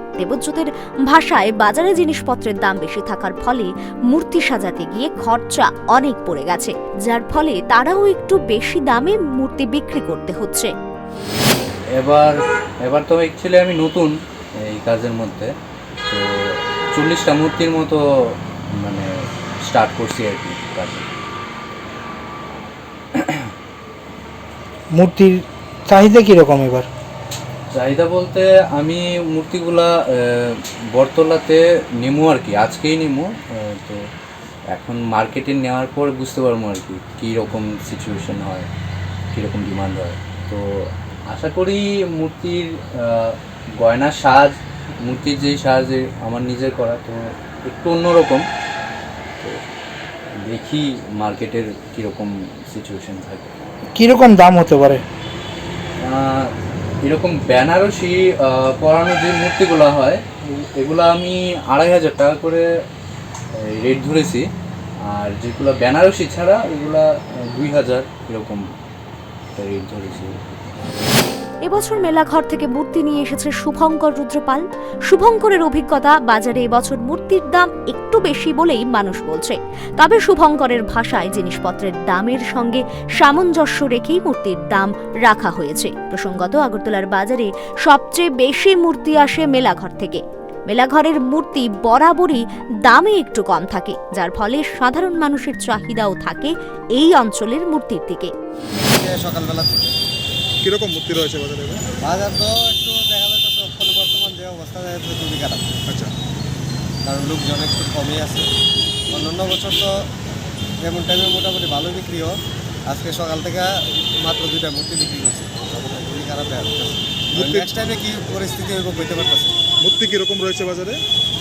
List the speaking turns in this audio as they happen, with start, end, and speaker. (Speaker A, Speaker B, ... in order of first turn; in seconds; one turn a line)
Speaker A: 0.2-10.7
Speaker B: 11.9-15.5
Speaker B: 16.1-18.0
Speaker B: 18.7-19.1
Speaker B: 19.6-21.1
Speaker B: 23.1-23.5
Speaker C: 24.9-26.9
Speaker B: 27.7-34.0
Speaker B: 34.7-38.7
Speaker B: 39.3-40.6
Speaker B: 41.3-48.4
Speaker B: 50.4-53.5
Speaker C: 54.0-55.0
Speaker B: 56.0-56.5
Speaker B: 57.0-62.6
Speaker B: 63.5-64.5
Speaker B: 65.1-68.6
Speaker B: 69.5-70.8
Speaker A: 71.6-98.3
Speaker D: 98.7-99.8
Speaker E: 100.6-101.8
Speaker D: 102.0-105.8
Speaker E: 105.9-106.1
Speaker D: 107.0-108.5
Speaker D: 109.1-109.9
Speaker D: 110.8-112.3
Speaker D: 112.9-119.5
Speaker E: 117.3-117.7
Speaker E: 119.8-121.0